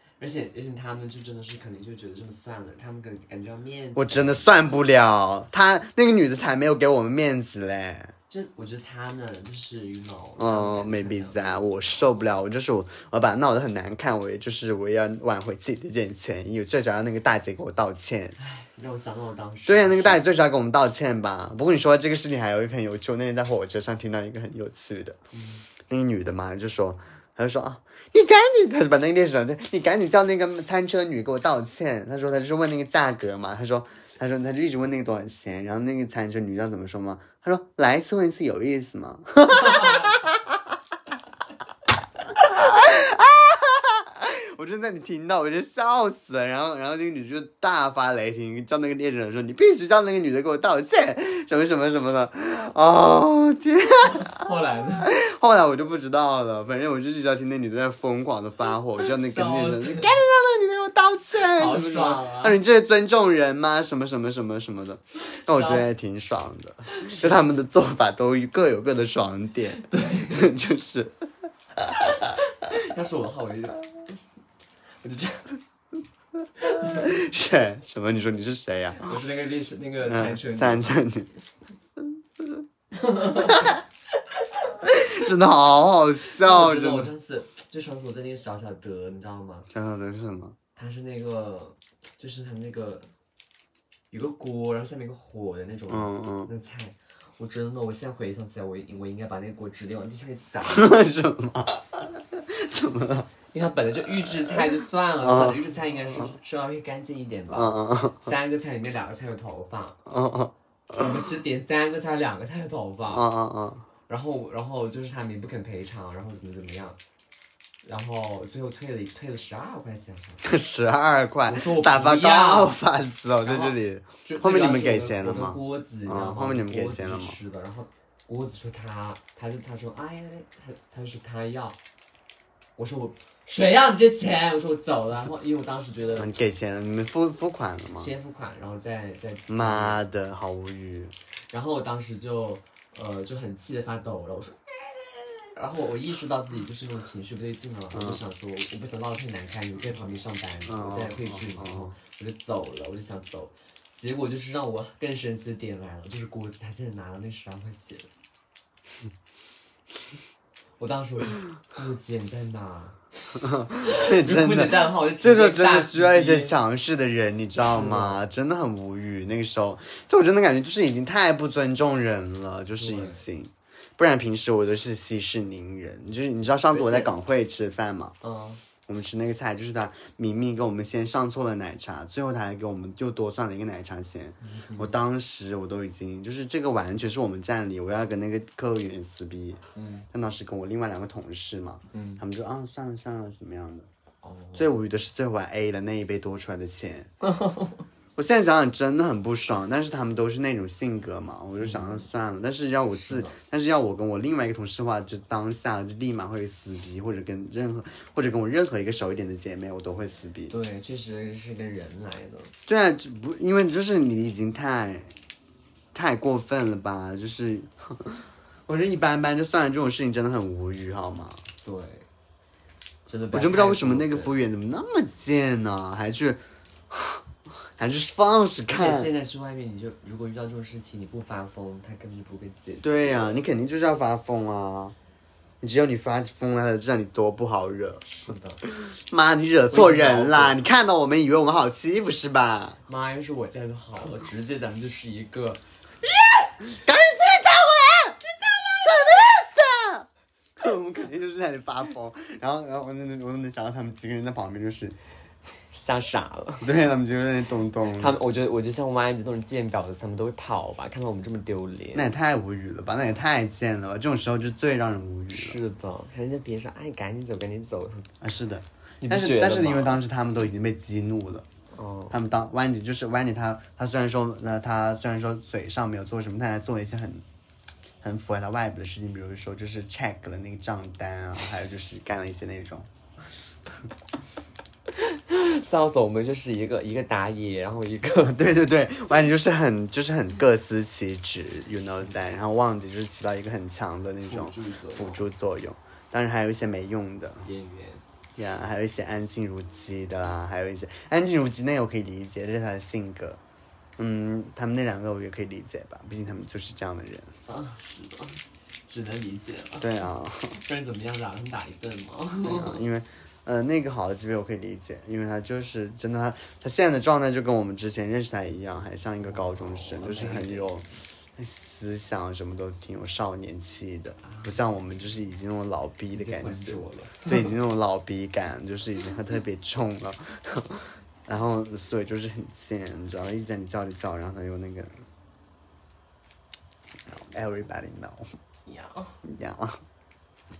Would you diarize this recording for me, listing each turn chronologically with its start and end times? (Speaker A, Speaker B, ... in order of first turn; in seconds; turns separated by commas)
Speaker A: 0.2-4.5, Speaker B: 4.0-8.1, Speaker A: 8.3-12.0, Speaker B: 10.4-18.4, Speaker A: 18.4-20.2, Speaker B: 19.7-25.2, Speaker A: 25.3-25.6, Speaker B: 25.9-40.6, Speaker B: 42.3-71.2, Speaker A: 54.1-55.1, Speaker A: 59.0-60.2, Speaker A: 61.4-62.6, Speaker A: 65.2-65.9, Speaker A: 66.9-67.4, Speaker A: 69.8-70.5, Speaker B: 71.8-72.1, Speaker A: 72.3-74.2, Speaker A: 75.0-75.6, Speaker A: 76.6-77.1, Speaker B: 76.8-79.1, Speaker A: 79.0-81.0, Speaker B: 80.0-81.3, Speaker A: 82.9-83.8, Speaker B: 83.4-83.7, Speaker B: 84.8-87.1, Speaker A: 86.4-89.7, Speaker B: 89.7-90.6, Speaker A: 90.8-93.1, Speaker A: 94.1-101.0, Speaker B: 95.9-96.5, Speaker B: 100.7-103.3, Speaker A: 103.5-110.0, Speaker B: 105.2-105.6, Speaker B: 107.5-108.3, Speaker B: 110.1-111.1, Speaker A: 110.9-113.3, Speaker B: 113.1-113.8, Speaker A: 114.1-117.0, Speaker A: 117.8-120.5, Speaker B: 120.4-127.4, Speaker A: 121.5-122.7, Speaker A: 123.5-131.8, Speaker A: 132.8-136.3, Speaker B: 136.2-138.1, Speaker A: 137.9-140.0, Speaker B: 139.5-141.1, Speaker A: 141.5-144.6, Speaker A: 145.4-158.1, Speaker B: 147.9-148.2, Speaker B: 150.7-151.9, Speaker A: 160.8-163.0, Speaker B: 163.4-178.2, Speaker A: 163.8-166.5, Speaker A: 167.6-168.2, Speaker A: 172.8-173.2, Speaker A: 176.7-177.1, Speaker A: 178.2-178.6, Speaker B: 178.9-193.9, Speaker A: 184.4-184.9, Speaker A: 189.7-190.1, Speaker A: 191.9-192.2, Speaker A: 194.2-194.7, Speaker B: 194.6-197.1, Speaker A: 197.2-197.9, Speaker B: 198.2-210.6, Speaker A: 201.6-202.1, Speaker A: 202.9-203.4, Speaker A: 210.5-212.5, Speaker B: 212.7-215.1, Speaker B: 215.9-221.4, Speaker A: 221.6-222.1, Speaker A: 223.1-224.3, Speaker B: 223.3-227.2, Speaker B: 227.8-229.1, Speaker A: 228.7-233.4, Speaker B: 232.8-234.9, Speaker B: 235.6-238.0, Speaker A: 238.0-238.6, Speaker B: 238.6-242.8, Speaker A: 239.7-240.6, Speaker A: 242.9-245.6, Speaker B: 246.7-250.1, Speaker B: 250.6-255.0, Speaker A: 255.7-256.7, Speaker B: 256.6-258.2, Speaker A: 258.0-262.1, Speaker B: 261.9-265.6, Speaker A: 265.3-268.1, Speaker B: 268.2-271.4, Speaker A: 269.0-270.0, Speaker A: 271.7-272.2, Speaker B: 272.1-277.2, Speaker B: 278.0-282.9, Speaker A: 284.9-288.4, Speaker B: 288.1-297.4, Speaker A: 294.3-295.2, Speaker A: 297.4-298.0, Speaker B: 298.4-303.4, Speaker B: 304.0-307.4, Speaker A: 307.5-310.1, Speaker B: 309.8-310.6, Speaker A: 310.6-312.8, Speaker B: 312.4-320.9, Speaker A: 319.2-320.9, Speaker B: 321.4-335.0, Speaker A: 324.2-324.6, Speaker A: 326.1-327.5, Speaker B: 337.1-338.3, Speaker A: 338.7-339.2, Speaker B: 339.2-339.8